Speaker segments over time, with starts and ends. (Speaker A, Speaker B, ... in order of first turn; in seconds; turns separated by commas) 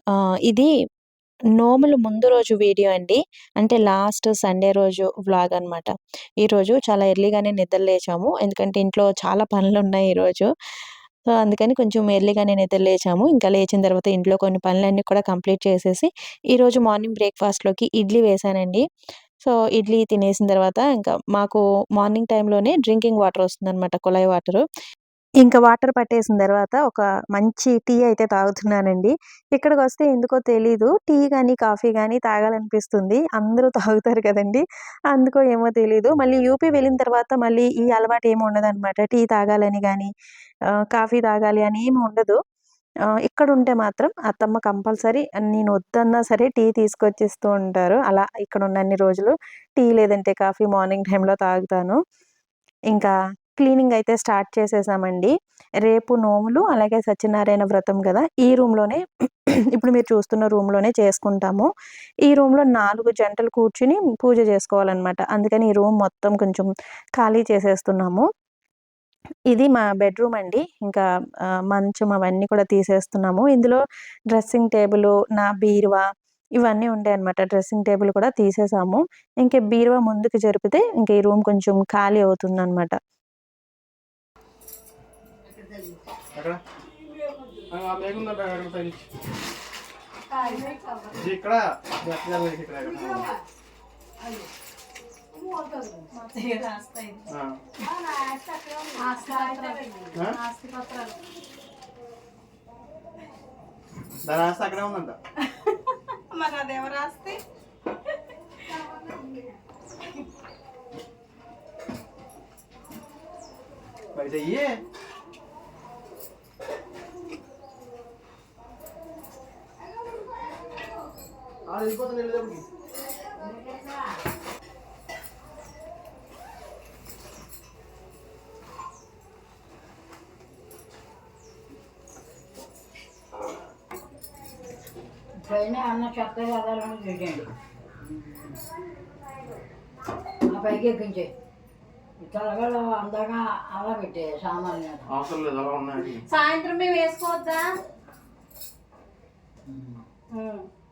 Speaker A: 1.6-5.9, Speaker A: 6.4-10.5, Speaker A: 11.4-18.8, Speaker A: 19.4-24.6, Speaker A: 25.4-40.1, Speaker A: 40.8-42.4, Speaker A: 43.2-52.0, Speaker A: 52.9-55.3, Speaker A: 55.8-59.0, Speaker A: 59.7-61.7, Speaker A: 62.2-68.2, Speaker A: 69.5-71.0, Speaker A: 71.7-73.8, Speaker A: 74.3-76.0, Speaker A: 76.6-82.9, Speaker B: 86.3-86.6, Speaker B: 87.7-89.0, Speaker C: 90.4-90.8, Speaker B: 91.2-93.3, Speaker C: 96.1-97.3, Speaker B: 97.3-97.6, Speaker C: 98.9-101.2, Speaker D: 99.2-99.7, Speaker B: 104.2-105.2, Speaker C: 105.7-107.4, Speaker B: 114.2-114.8, Speaker B: 121.7-122.7, Speaker D: 135.4-137.5, Speaker D: 140.5-141.3, Speaker D: 142.2-145.1, Speaker B: 145.1-146.2, Speaker C: 146.3-147.7, Speaker C: 150.3-150.7